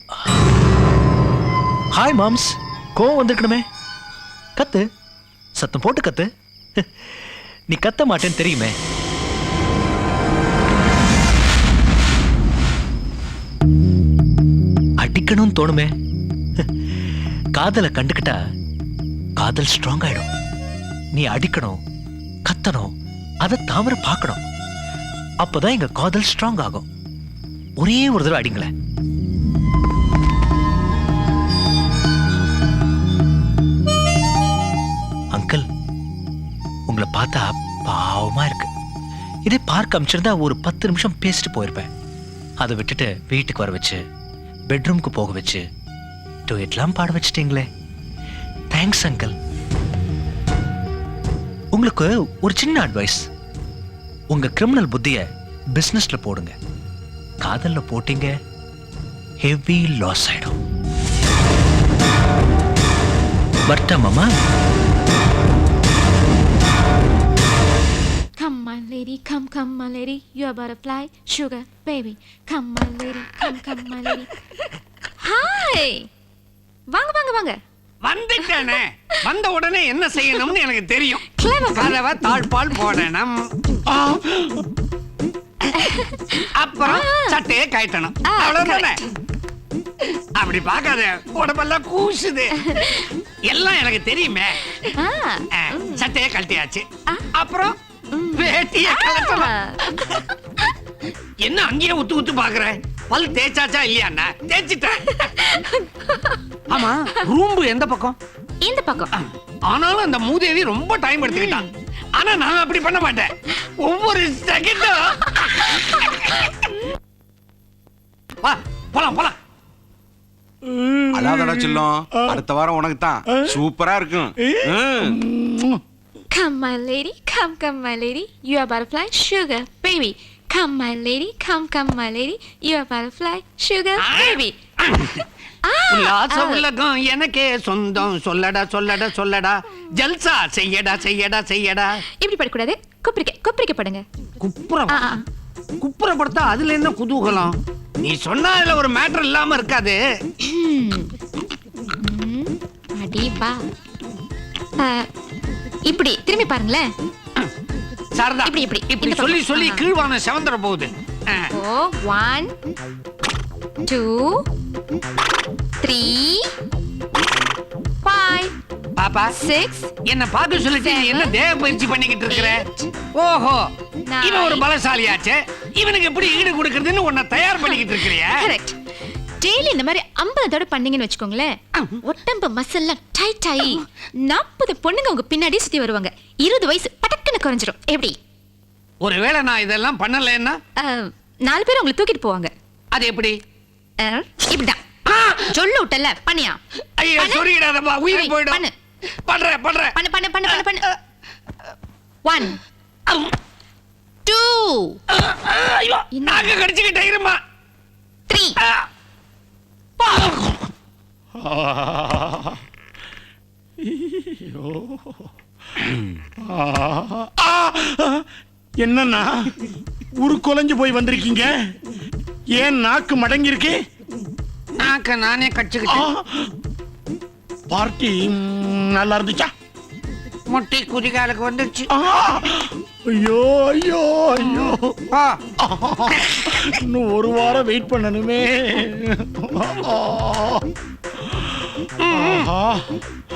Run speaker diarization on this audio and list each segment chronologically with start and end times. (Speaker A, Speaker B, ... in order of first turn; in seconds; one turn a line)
Speaker A: 1.9-3.6
Speaker A: 4.5-4.8
Speaker A: 5.6-8.8
Speaker A: 15.0-15.9
Speaker A: 17.6-18.4
Speaker A: 19.4-20.3
Speaker A: 21.1-21.8
Speaker A: 22.4-24.4
Speaker A: 25.4-26.9
Speaker A: 27.8-28.7
Speaker A: 35.3-35.6
Speaker A: 36.9-38.7
Speaker A: 39.5-41.9
Speaker A: 42.6-44.0
Speaker A: 44.7-45.6
Speaker A: 46.5-47.6
Speaker A: 48.7-49.3
Speaker A: 51.7-53.3
Speaker A: 54.3-56.5
Speaker A: 57.4-58.3
Speaker A: 59.4-60.6
Speaker A: 63.7-64.3
Speaker B: 68.4-74.5
Speaker B: 75.2-76.1
Speaker B: 76.9-77.6
Speaker C: 78.0-83.3
Speaker B: 78.4-78.7
Speaker B: 81.3-82.0
Speaker D: 83.9-84.4
Speaker B: 85.8-87.3
Speaker C: 86.5-89.0
Speaker B: 88.2-89.0
Speaker C: 90.3-92.5
Speaker B: 92.5-93.1
Speaker C: 93.5-94.6
Speaker B: 94.9-96.0
Speaker C: 95.5-97.8
Speaker B: 98.1-100.3
Speaker C: 98.3-99.5
Speaker C: 101.4-105.3
Speaker B: 105.2-106.4
Speaker C: 106.7-108.2
Speaker B: 108.6-109.1
Speaker C: 109.1-115.7
Speaker B: 111.3-111.7
Speaker C: 118.4-119.3
Speaker D: 120.7-122.4
Speaker E: 121.1-125.2
Speaker D: 124.4-125.8
Speaker B: 126.3-134.6
Speaker C: 134.0-135.2
Speaker B: 135.6-136.6
Speaker C: 135.9-141.9
Speaker B: 142.2-144.0
Speaker C: 144.4-145.1
Speaker B: 144.9-145.2
Speaker C: 145.8-150.0
Speaker B: 150.4-151.1
Speaker B: 152.0-153.6
Speaker B: 154.8-155.1
Speaker B: 155.8-156.9
Speaker C: 158.1-161.5
Speaker B: 158.4-159.8
Speaker B: 161.5-162.5
Speaker B: 163.8-164.4
Speaker B: 165.8-166.5
Speaker B: 168.0-168.5
Speaker C: 169.0-169.3
Speaker B: 169.3-169.9
Speaker C: 170.0-172.6
Speaker B: 170.6-172.9
Speaker C: 173.1-173.6
Speaker B: 174.1-174.6
Speaker C: 174.2-178.4
Speaker B: 177.6-178.8
Speaker B: 179.4-188.2
Speaker C: 189.0-190.6
Speaker B: 190.8-192.5
Speaker C: 192.9-193.4
Speaker B: 194.0-194.8
Speaker C: 195.1-195.4
Speaker B: 195.4-196.6
Speaker C: 197.0-198.6
Speaker B: 197.2-197.4
Speaker B: 198.1-198.7
Speaker C: 199.2-199.9
Speaker B: 199.9-200.8
Speaker C: 200.5-200.9
Speaker B: 202.2-202.6
Speaker B: 204.2-205.0
Speaker C: 205.1-207.4
Speaker B: 206.1-206.6
Speaker B: 208.3-208.6
Speaker C: 208.6-208.9
Speaker C: 210.0-210.5
Speaker D: 211.4-212.6
Speaker D: 213.8-215.3
Speaker D: 216.4-218.2
Speaker D: 218.8-219.5
Speaker D: 220.2-221.5
Speaker D: 222.5-223.8
Speaker C: 224.8-226.1
Speaker D: 225.9-226.5
Speaker D: 227.7-229.5
Speaker C: 230.5-231.9
Speaker D: 231.9-234.9
Speaker C: 235.1-235.4
Speaker D: 235.6-240.7
Speaker D: 241.3-243.0
Speaker C: 242.0-242.5